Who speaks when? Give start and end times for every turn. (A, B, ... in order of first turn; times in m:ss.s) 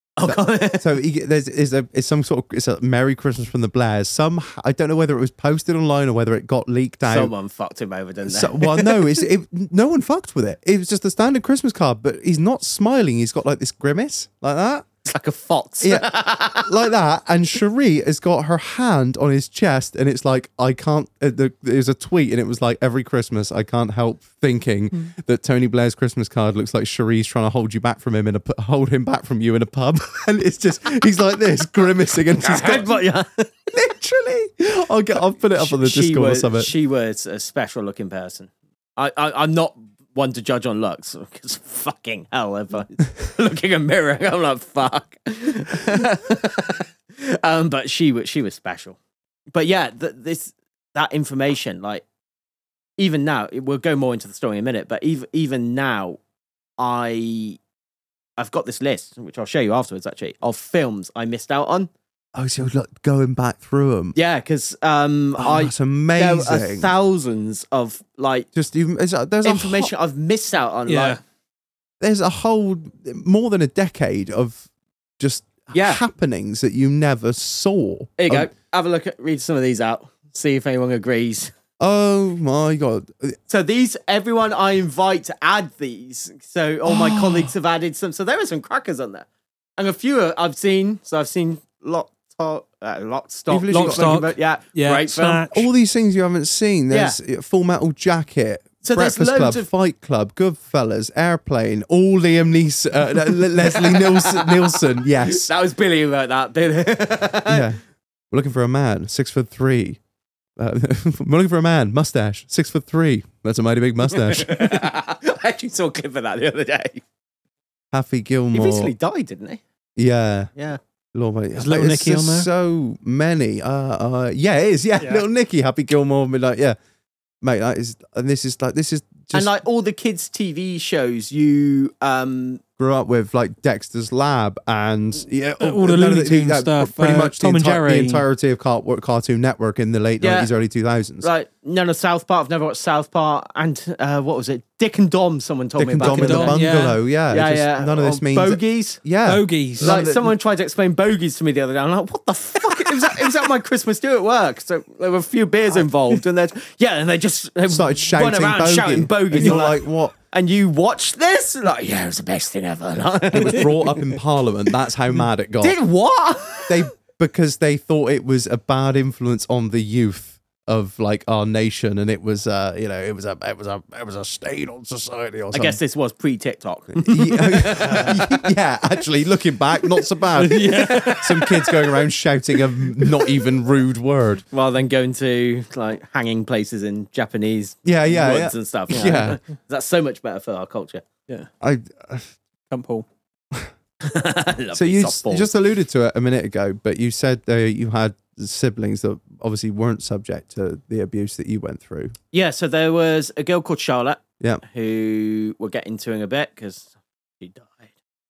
0:00.2-0:01.0 A
0:00.2-0:07.3 B
0:07.0-0:09.2 A
0:08.2-0:14.8 B
0:15.0-0:16.8 A
0:15.8-0:32.9 B
0:32.4-0:33.5 A
0:33.7-0:36.7 B
0:35.5-0:49.0 A
0:49.5-0:52.0 A
0:53.0-0:56.2 A
0:56.8-0:57.6 A
0:58.4-1:01.9 A
1:02.3-1:04.2 B
1:04.1-1:08.5 A
1:05.4-1:06.9 B
1:08.5-1:09.9 B
1:09.4-1:11.2 A
1:10.9-1:11.2 C
1:12.0-1:14.6 B
1:15.2-1:18.5 B
1:15.7-1:16.0 A
1:18.2-1:21.5 A
1:21.8-1:23.4 B
1:23.5-1:29.3 A
1:26.8-1:27.5 B
1:29.8-1:35.5 A
1:33.5-1:34.2 B
1:33.7-1:35.6 C
1:35.5-1:45.5 B
1:36.9-1:37.2 A
1:38.8-1:39.7 A
1:43.6-1:47.7 A
1:47.5-1:47.8 B
1:48.3-1:50.0 B
1:50.6-1:54.8 B
1:54.1-1:57.0 A
1:57.9-1:58.9 B
1:58.5-1:59.6 A
2:00.0-2:00.5 B
2:01.1-2:06.8 B
2:01.5-2:02.5 C
2:07.4-2:09.5 B
2:09.3-2:12.6 A
2:12.8-2:21.3 B
2:15.6-2:18.2 C
2:20.2-2:20.5 A
2:21.2-2:26.6 A
2:25.8-2:30.3 B
2:26.0-2:27.0 C
2:27.3-2:29.0 A
2:29.2-2:29.9 C
2:29.8-2:44.2 A
2:37.7-2:40.1 B
2:43.3-2:45.8 B
2:45.6-2:46.8 A
2:46.7-2:55.8 B
2:55.5-2:58.5 A
2:57.0-3:04.4 B
3:00.0-3:02.1 A
3:00.4-3:01.3 C
3:03.0-3:03.3 A
3:04.5-3:11.5 A
3:07.8-3:09.4 B
3:11.6-3:12.3 B
3:12.7-3:13.0 C
3:14.0-3:15.5 A
3:14.7-3:22.1 B
3:22.3-3:27.9 A